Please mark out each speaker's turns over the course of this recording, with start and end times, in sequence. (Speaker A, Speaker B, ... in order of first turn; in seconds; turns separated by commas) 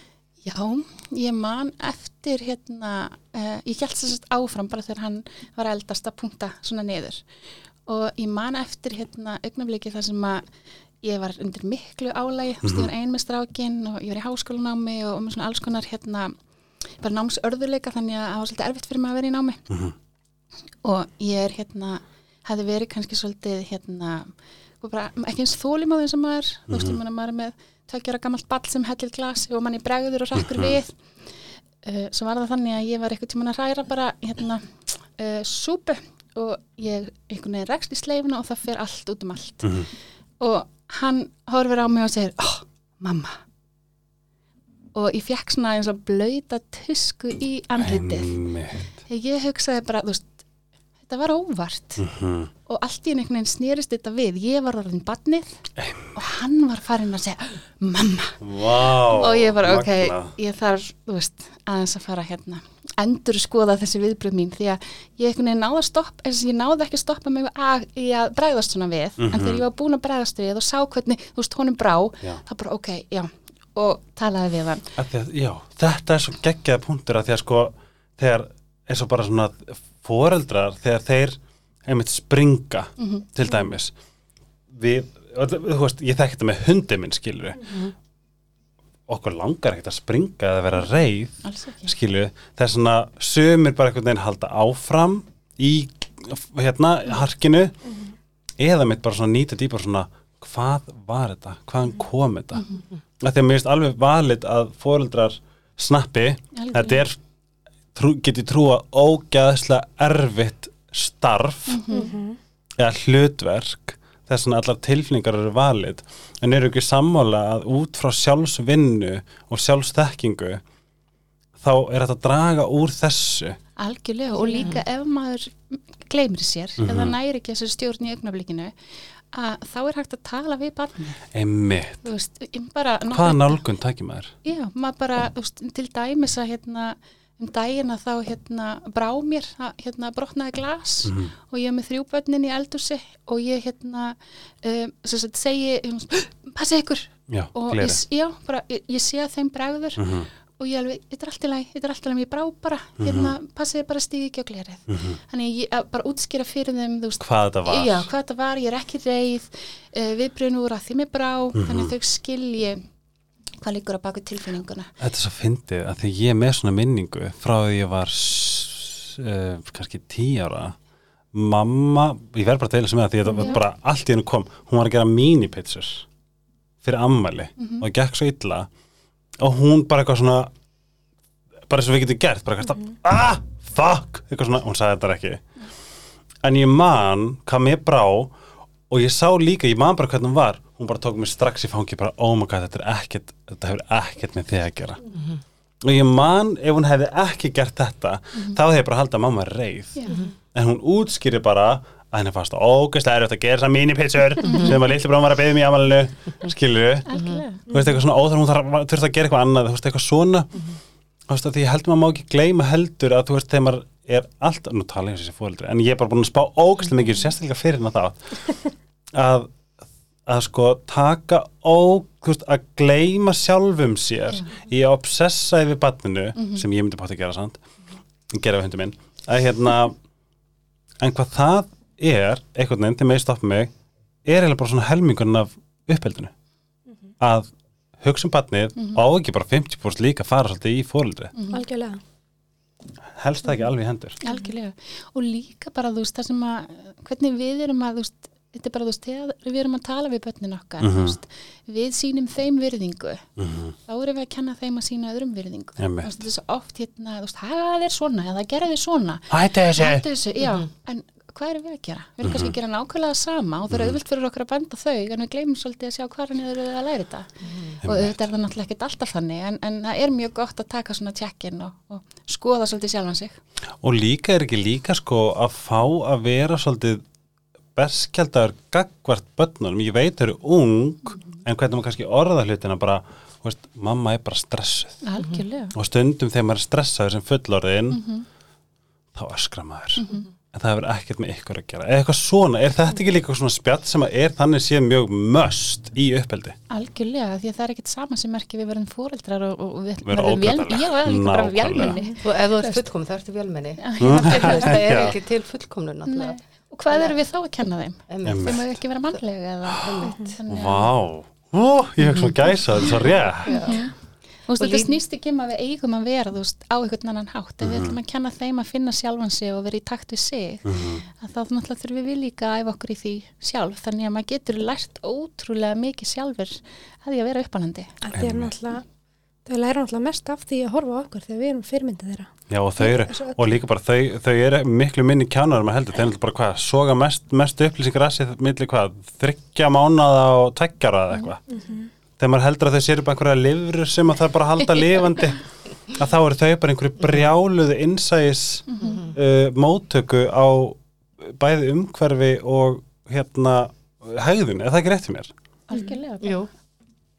Speaker A: 0.4-7.2, Speaker A: 7.8-10.4, Speaker A: 11.0-19.6, Speaker B: 12.6-12.9, Speaker A: 20.8-31.0, Speaker B: 26.7-27.0, Speaker B: 30.4-30.7, Speaker A: 31.8-39.8, Speaker B: 39.6-39.9, Speaker A: 40.4-43.4, Speaker A: 44.9-48.4, Speaker B: 47.8-48.9, Speaker A: 49.1-50.4, Speaker A: 51.0-52.0, Speaker B: 52.0-52.5, Speaker A: 52.7-55.5, Speaker B: 55.8-56.1, Speaker A: 56.1-58.4, Speaker B: 58.4-60.3, Speaker A: 59.1-74.9, Speaker B: 69.2-69.6, Speaker B: 75.0-83.9, Speaker A: 83.0-83.2, Speaker B: 84.7-87.8, Speaker B: 89.1-97.7, Speaker A: 91.4-91.9, Speaker B: 98.6-102.7, Speaker B: 103.2-107.2, Speaker A: 106.5-107.0, Speaker B: 107.9-111.8, Speaker A: 111.7-112.1, Speaker C: 111.9-112.4, Speaker B: 112.8-120.6, Speaker B: 121.6-123.6, Speaker A: 123.8-128.7, Speaker B: 126.8-127.2, Speaker A: 129.3-131.2, Speaker B: 131.3-132.0, Speaker A: 132.0-133.6, Speaker B: 133.1-134.3, Speaker A: 134.4-150.0, Speaker B: 141.1-141.3, Speaker B: 147.3-148.0, Speaker B: 150.0-150.3, Speaker A: 150.6-162.8, Speaker B: 153.0-153.3, Speaker B: 154.9-155.2, Speaker B: 157.2-158.1, Speaker B: 161.5-161.9, Speaker A: 163.6-164.9, Speaker B: 165.0-170.7, Speaker B: 171.3-176.1, Speaker A: 173.3-173.6, Speaker B: 176.8-178.7, Speaker A: 177.6-177.8, Speaker B: 179.4-180.5, Speaker B: 181.7-185.4, Speaker B: 186.4-188.3, Speaker B: 188.9-195.0, Speaker B: 195.8-207.1, Speaker D: 200.1-200.3, Speaker A: 207.1-207.6, Speaker B: 207.7-210.5, Speaker C: 207.7-208.0, Speaker B: 211.3-218.6, Speaker B: 219.1-219.5, Speaker B: 220.3-227.6, Speaker B: 228.3-230.0, Speaker B: 231.0-233.7, Speaker B: 234.2-236.3, Speaker B: 237.2-237.5, Speaker B: 238.0-241.3, Speaker A: 241.3-241.6, Speaker C: 241.5-242.0, Speaker B: 243.1-244.2, Speaker A: 244.2-253.3, Speaker B: 250.8-251.2, Speaker B: 253.4-253.7, Speaker A: 253.9-273.4, Speaker B: 255.8-256.1, Speaker B: 259.3-260.0, Speaker B: 262.2-262.5, Speaker D: 267.4-267.8, Speaker B: 267.8-268.2, Speaker B: 273.8-277.0, Speaker B: 277.8-285.0, Speaker A: 285.0-285.7, Speaker B: 285.7-288.0, Speaker A: 287.9-288.2, Speaker B: 289.1-296.6, Speaker A: 290.0-290.3, Speaker A: 296.7-302.8, Speaker B: 300.1-302.0, Speaker D: 302.2-306.4, Speaker A: 303.8-304.8, Speaker B: 304.0-305.1, Speaker A: 306.0-310.9, Speaker D: 308.1-308.6, Speaker B: 308.2-308.7, Speaker D: 309.8-310.1, Speaker C: 310.1-310.3, Speaker B: 310.5-313.6, Speaker D: 313.4-313.8, Speaker A: 313.5-313.9, Speaker A: 314.5-327.9, Speaker D: 314.6-314.9, Speaker B: 317.6-317.9, Speaker B: 320.6-321.0, Speaker C: 328.0-328.8, Speaker B: 328.1-328.5, Speaker C: 329.4-333.4, Speaker B: 332.5-341.4, Speaker C: 341.5-341.9, Speaker B: 342.2-355.3, Speaker A: 348.7-349.0, Speaker D: 348.8-349.1, Speaker A: 355.7-356.4, Speaker D: 356.2-356.5